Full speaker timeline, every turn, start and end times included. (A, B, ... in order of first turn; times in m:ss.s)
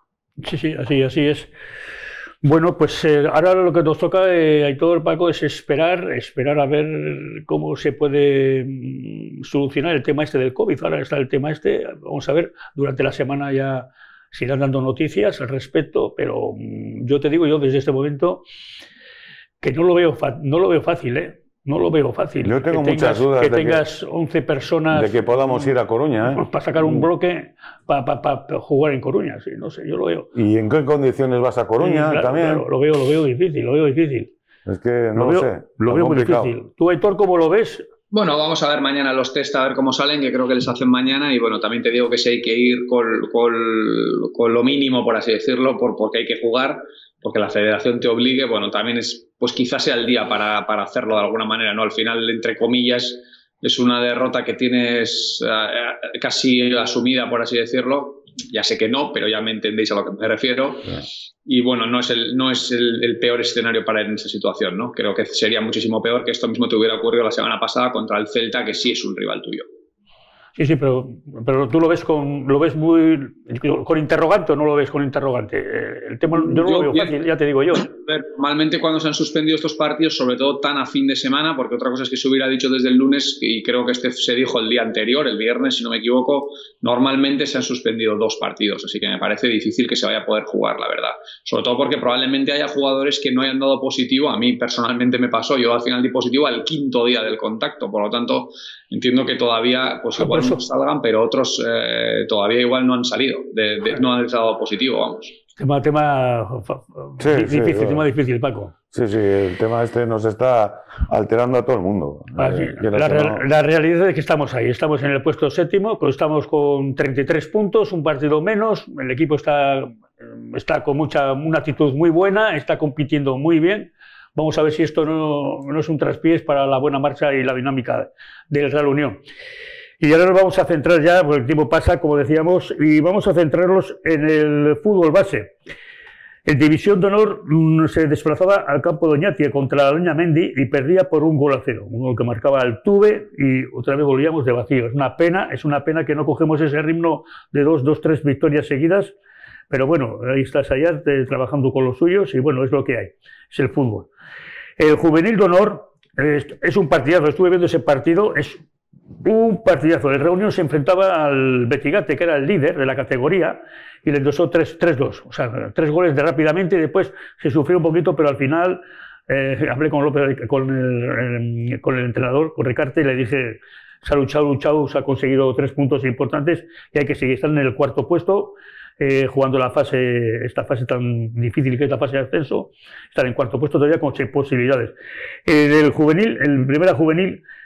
0:00.4-0:01.5 A
0:02.4-0:18.4 A
0:19.6-0:25.5 A
0:22.4-0:23.8 B
0:24.9-0:27.0 B
0:26.3-0:30.3 A
0:30.3-0:32.6 B
0:31.8-0:34.3 A
0:34.6-0:36.5 B
0:35.1-0:37.9 A
0:38.1-1:09.6 C
1:10.6-1:17.8 A
1:16.3-1:17.2 C
1:17.7-1:45.4 C
1:40.2-1:40.6 A
1:45.6-1:48.7 A
1:47.2-1:48.1 B
1:48.9-1:53.4 B
1:52.4-2:09.2 A
2:10.0-2:15.5 A
2:16.4-2:29.1 A
2:29.7-2:34.1 A
2:34.8-2:38.6 A
2:39.2-3:04.9 A
3:05.4-3:07.4 A